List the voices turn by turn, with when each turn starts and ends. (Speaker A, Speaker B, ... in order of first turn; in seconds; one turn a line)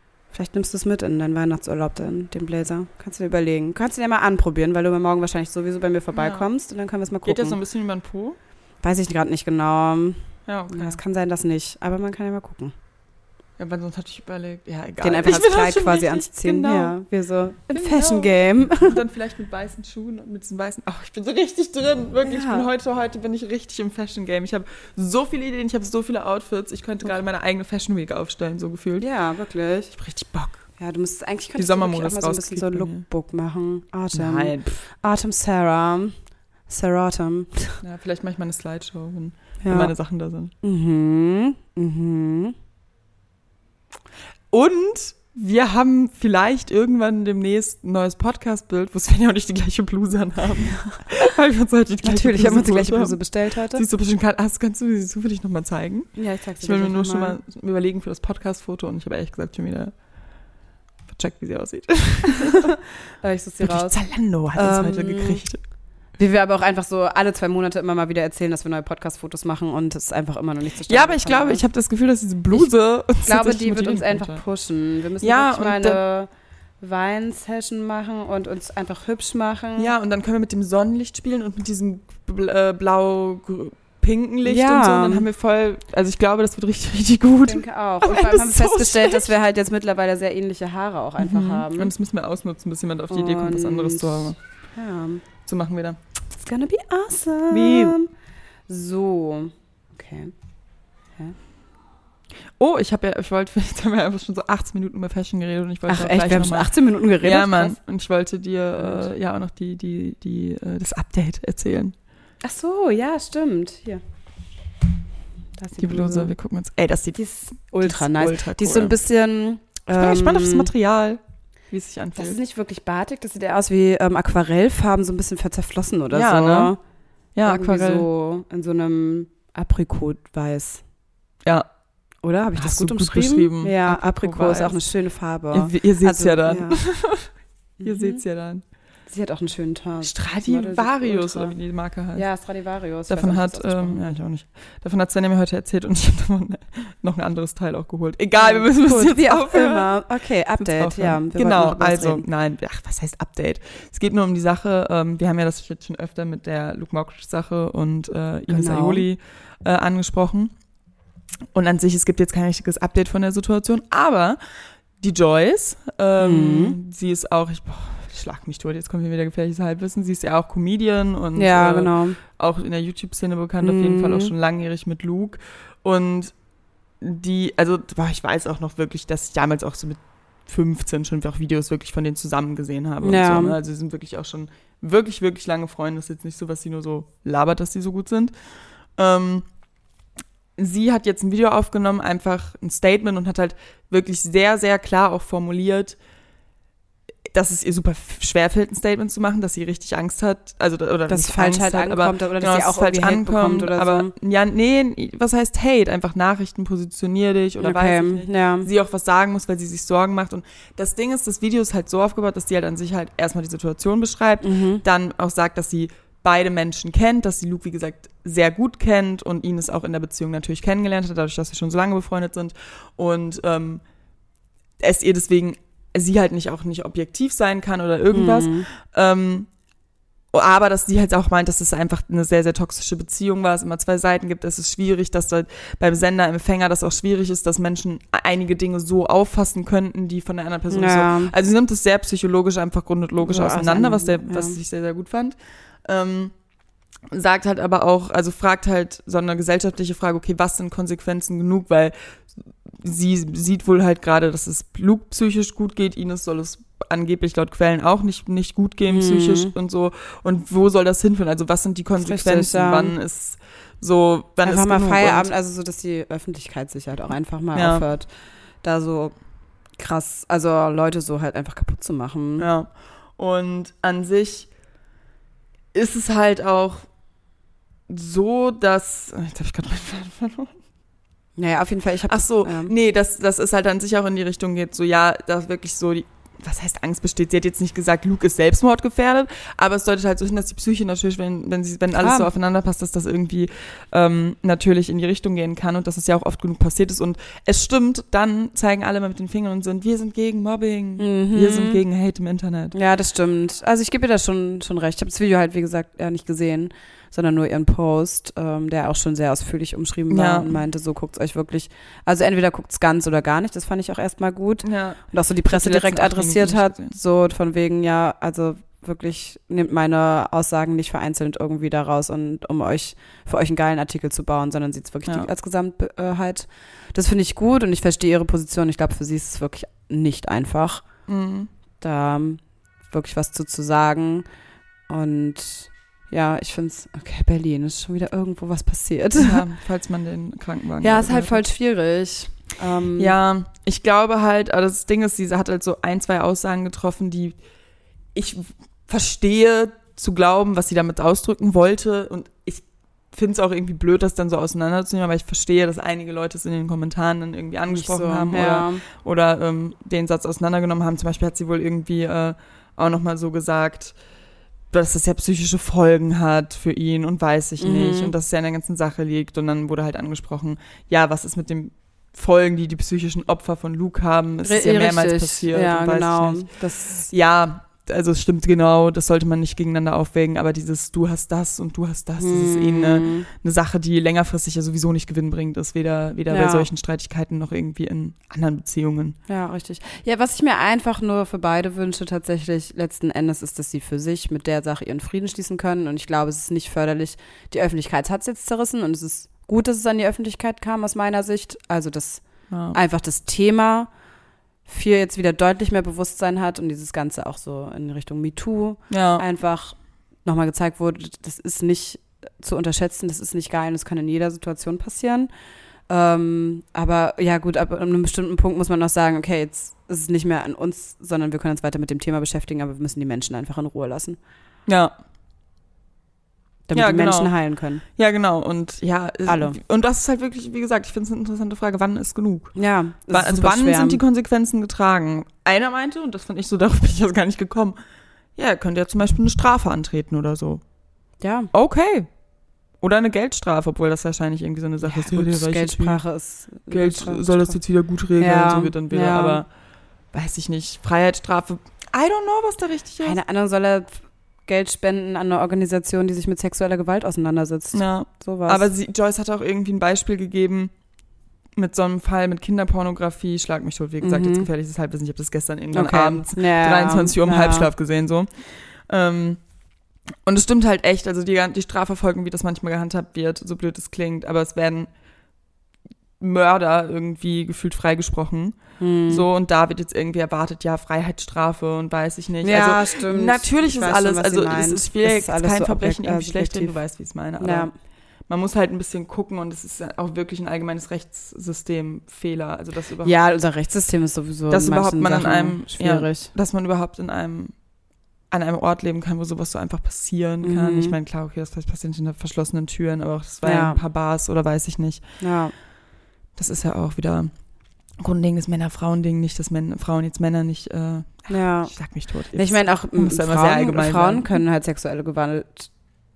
Speaker A: 0.3-7.6
Speaker B: 6.1-6.5
Speaker B: 7.3-8.4
Speaker A: 8.8-12.7
Speaker B: 10.5-11.0
Speaker B: 13.6-17.0
Speaker A: 15.0-19.0
Speaker B: 17.7-29.1
Speaker A: 22.2-22.7
Speaker A: 29.0-29.9
Speaker B: 29.9-30.6
Speaker A: 30.8-36.1
Speaker B: 31.6-33.0
Speaker B: 34.1-34.8
Speaker A: 36.7-37.8
Speaker B: 37.8-40.5
Speaker A: 39.6-39.9
Speaker A: 40.6-42.5
Speaker B: 44.5-59.9
Speaker A: 52.0-53.8
Speaker A: 56.2-57.4
Speaker B: 61.1-62.8
Speaker A: 62.2-64.0
Speaker B: 63.6-65.6
Speaker A: 64.5-65.4
Speaker A: 66.2-71.6
Speaker B: 70.9-74.4
Speaker A: 73.2-76.3
Speaker B: 75.2-76.0
Speaker A: 76.8-79.9
Speaker B: 79.8-89.3
Speaker A: 84.5-85.3
Speaker A: 87.5-91.9
Speaker B: 91.2-94.4
Speaker A: 93.1-95.2
Speaker B: 95.5-96.0
Speaker A: 96.4-98.1
Speaker B: 97.5-98.0
Speaker A: 98.7-100.3
Speaker B: 102.6-112.0
Speaker A: 105.9-107.8
Speaker A: 108.8-109.0
Speaker A: 112.4-114.0
Speaker A: 115.6-116.3
Speaker B: 115.8-117.2
Speaker A: 117.2-120.7
Speaker B: 117.8-119.0
Speaker B: 119.9-122.4
Speaker A: 122.2-126.8
Speaker B: 126.1-126.7
Speaker B: 127.3-128.1
Speaker A: 127.4-130.8
Speaker A: 132.2-136.8
Speaker B: 132.6-134.8
Speaker B: 135.5-137.3
Speaker A: 137.8-138.2
Speaker B: 137.8-138.6
Speaker A: 139.1-141.6
Speaker B: 140.0-142.2
Speaker A: 142.2-144.2
Speaker B: 143.1-149.9
Speaker A: 148.4-152.3
Speaker B: 150.6-160.5
Speaker A: 158.5-159.1
Speaker B: 161.5-164.4
Speaker B: 165.0-176.3
Speaker A: 166.2-166.8
Speaker A: 171.3-172.2
Speaker A: 173.6-174.3
Speaker B: 177.0-188.3
Speaker A: 183.0-183.6
Speaker B: 189.0-189.5
Speaker B: 190.6-196.0
Speaker B: 197.3-223.8
Speaker A: 201.1-204.1
Speaker A: 207.6-208.7
Speaker A: 214.4-214.8
Speaker B: 224.8-229.5
Speaker A: 228.1-228.7
Speaker B: 230.3-246.3
Speaker A: 240.7-241.3
Speaker A: 243.2-244.6
Speaker B: 247.1-251.9
Speaker B: 252.7-265.3
Speaker A: 258.9-259.5
Speaker A: 262.0-262.9
Speaker A: 264.4-268.1
Speaker B: 267.6-267.8
Speaker A: 268.6-269.1
Speaker A: 269.8-272.5
Speaker B: 272.4-274.5
Speaker B: 275.7-276.9
Speaker B: 277.9-280.6
Speaker A: 281.4-282.7
Speaker B: 282.1-302.8
Speaker A: 291.9-292.3
Speaker A: 301.0-301.8
Speaker A: 302.7-330.9
Speaker B: 310.1-310.5
Speaker B: 314.6-316.9
Speaker B: 331.1-331.5
Speaker A: 331.8-334.3
Speaker A: 334.9-339.5
Speaker B: 339.2-341.4
Speaker A: 340.8-343.1
Speaker B: 343.0-347.4
Speaker B: 348.1-364.0
Speaker A: 357.7-358.8
Speaker B: 364.7-389.2
Speaker A: 367.6-368.1
Speaker A: 374.4-377.1
Speaker A: 382.2-383.3
Speaker A: 386.3-386.7
Speaker A: 389.3-403.9
Speaker B: 402.5-402.8
Speaker A: 404.7-415.3
Speaker B: 408.9-409.2
Speaker A: 415.9-424.2
Speaker B: 424.7-424.9
Speaker A: 426.7-427.8
Speaker B: 426.7-427.3
Speaker B: 428.0-432.5
Speaker A: 429.3-429.6
Speaker A: 432.6-434.0
Speaker B: 433.1-437.8
Speaker B: 438.4-440.6
Speaker A: 441.2-441.5
Speaker B: 441.5-442.1
Speaker B: 442.8-446.0
Speaker A: 444.8-447.6
Speaker B: 446.7-449.5
Speaker A: 448.2-449.4
Speaker B: 450.1-453.2
Speaker A: 453.0-458.7
Speaker B: 457.7-460.7
Speaker B: 461.6-469.4
Speaker A: 464.0-464.5
Speaker A: 465.7-467.7
Speaker B: 470.2-474.9
Speaker B: 476.2-487.7
Speaker A: 478.8-479.3
Speaker A: 482.4-486.8
Speaker A: 487.4-487.7
Speaker B: 488.3-493.2
Speaker A: 493.0-496.3
Speaker B: 494.5-497.5
Speaker B: 498.3-505.0
Speaker A: 500.4-501.0
Speaker A: 503.4-503.8
Speaker A: 505.2-505.5
Speaker B: 506.4-507.3
Speaker B: 508.0-514.4
Speaker A: 511.3-511.7
Speaker A: 512.3-515.7